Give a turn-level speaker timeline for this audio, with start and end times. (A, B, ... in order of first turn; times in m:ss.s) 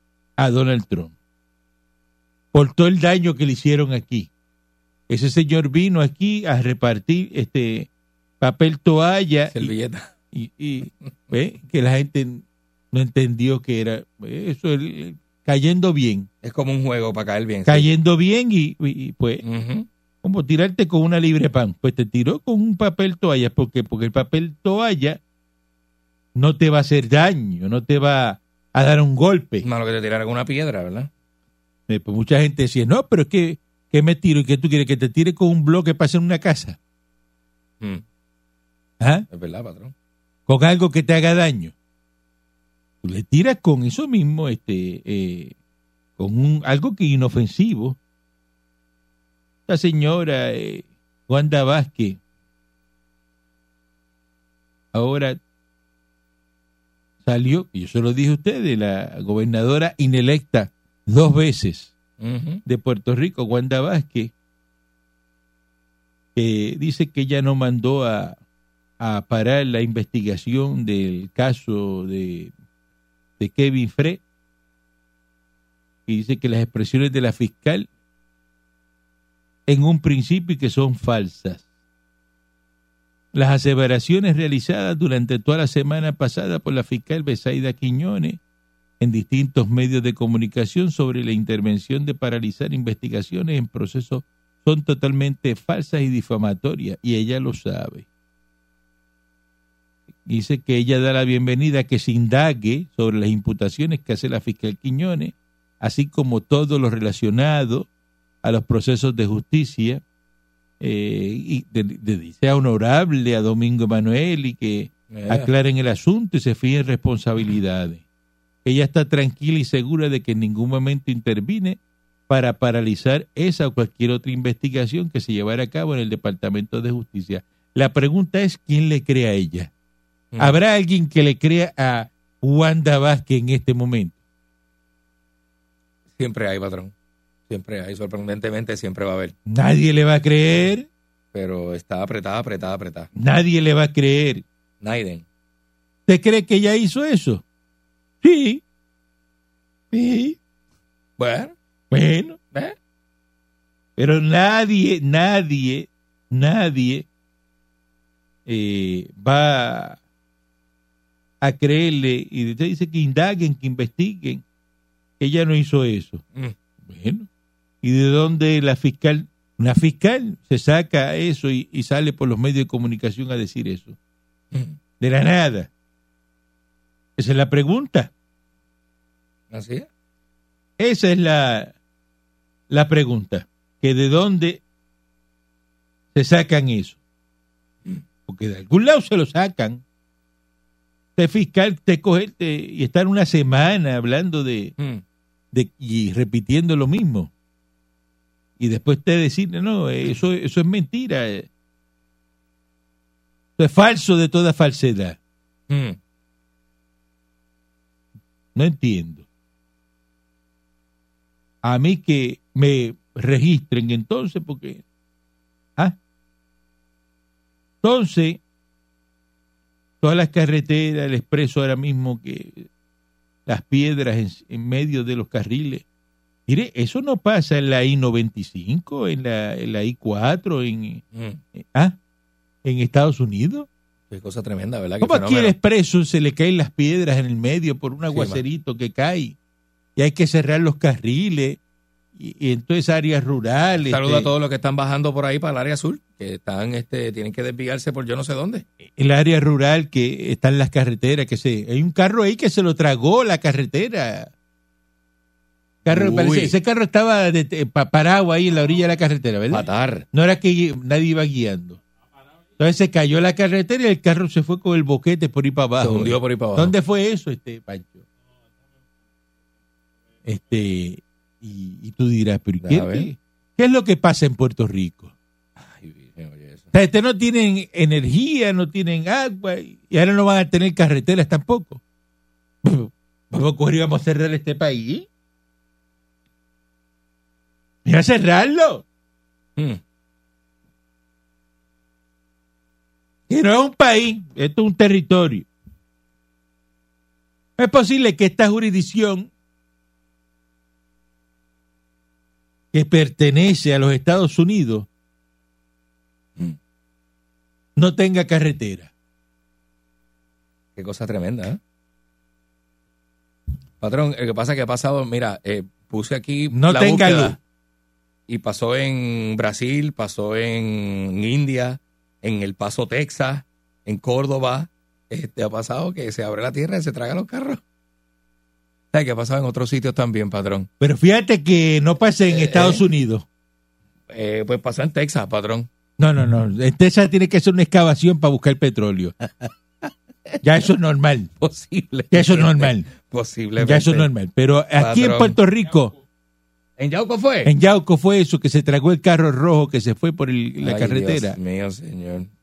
0:00.4-0:01.1 A
0:02.5-0:04.3 A
0:05.1-0:07.9 A
0:08.4-0:09.7 A
0:09.5-0:10.1 B
0:10.3-0:16.3 A
0:16.4-0:17.9 B
0:17.6-0:19.4 A
0:19.4-0:19.9 B
0:20.2-0:25.2 A
0:26.4-0:29.6 A
0:29.6-0:31.1 B
0:31.9-0:36.8 A
0:39.0-0:39.3 A
0:39.3-0:39.9 B
0:40.5-0:41.7 A
0:43.0-0:45.5 A
0:46.2-0:48.0 A
0:49.7-0:52.2 A
0:54.9-0:55.4 A
0:57.2-1:01.9 A
1:02.2-1:02.6 B
1:02.6-1:04.3 A
1:06.4-1:08.4 A
1:09.0-1:12.5 A
1:13.4-1:14.2 A
1:16.1-1:17.9 A
1:19.7-1:21.6 A
1:23.3-1:28.4 A
1:29.0-1:38.1 A
1:40.2-1:47.9 A
1:48.4-1:50.0 A
1:50.8-1:58.0 A
1:55.1-1:55.5 B
1:58.6-2:09.7 A
2:10.3-2:10.6 B
2:10.4-2:14.2 A
2:16.1-2:16.9 B
2:17.5-2:19.4 B
2:19.5-2:20.9 A
2:21.3-2:23.1 B
2:23.2-2:24.4 A
2:24.8-2:25.2 B
2:26.1-2:27.4 A
2:28.2-2:28.6 A
2:29.9-2:30.4 A
2:31.2-2:31.5 B
2:31.9-2:32.4 A
2:34.0-2:37.1 A
2:38.4-2:40.0 A
2:41.4-2:44.4 A
2:45.2-2:46.2 A
2:46.8-2:47.3 A
2:47.8-2:54.0 A
2:55.0-2:55.7 A
2:57.2-2:58.1 A
2:59.5-2:59.9 B
3:00.8-3:01.7 A
3:02.7-3:04.6 A
3:06.1-3:07.0 A
3:08.3-3:09.8 A
3:11.2-3:14.7 A
3:15.5-3:17.3 A
3:18.6-3:21.5 A
3:23.6-3:25.2 A
3:25.7-3:26.0 B
3:28.6-3:29.2 A
3:31.6-3:34.8 A
3:37.8-3:38.4 A
3:40.0-3:42.7 A
3:43.4-3:45.8 A
3:46.5-3:51.0 A
3:51.1-3:51.4 B
3:51.6-3:52.0 A
3:52.6-3:53.7 A
3:54.1-3:55.5 B
3:55.0-3:59.4 A
3:58.1-3:58.4 B
4:00.0-4:01.6 A
4:02.2-4:04.3 A
4:03.9-4:08.6 B
4:09.0-4:14.3 A
4:15.8-4:21.8 A
4:15.9-4:16.5 B
4:19.5-4:20.1 B
4:22.6-4:28.0 A
4:25.8-4:26.7 B
4:30.2-4:35.1 A
4:32.6-4:33.1 B
4:35.6-4:36.7 B
4:36.7-4:41.8 A
4:42.6-4:45.1 A
4:47.8-4:48.8 A
4:53.3-4:55.5 A
4:57.6-4:59.3 A
5:02.7-5:04.9 A
5:07.8-5:08.9 A
5:10.8-5:11.6 B
5:13.8-5:17.4 B
5:16.5-5:17.4 A
5:18.3-5:27.6 B
5:28.9-5:30.7 B
5:30.8-5:33.2 A
5:32.3-5:32.8 B
5:34.1-5:35.7 B
5:36.0-5:39.1 A
5:40.4-5:41.3 A
5:41.4-5:44.1 B
5:42.1-5:42.9 A
5:43.6-5:45.9 A
5:44.8-5:45.4 B
5:46.8-5:47.5 B
5:47.4-5:51.4 A
5:50.6-5:52.3 B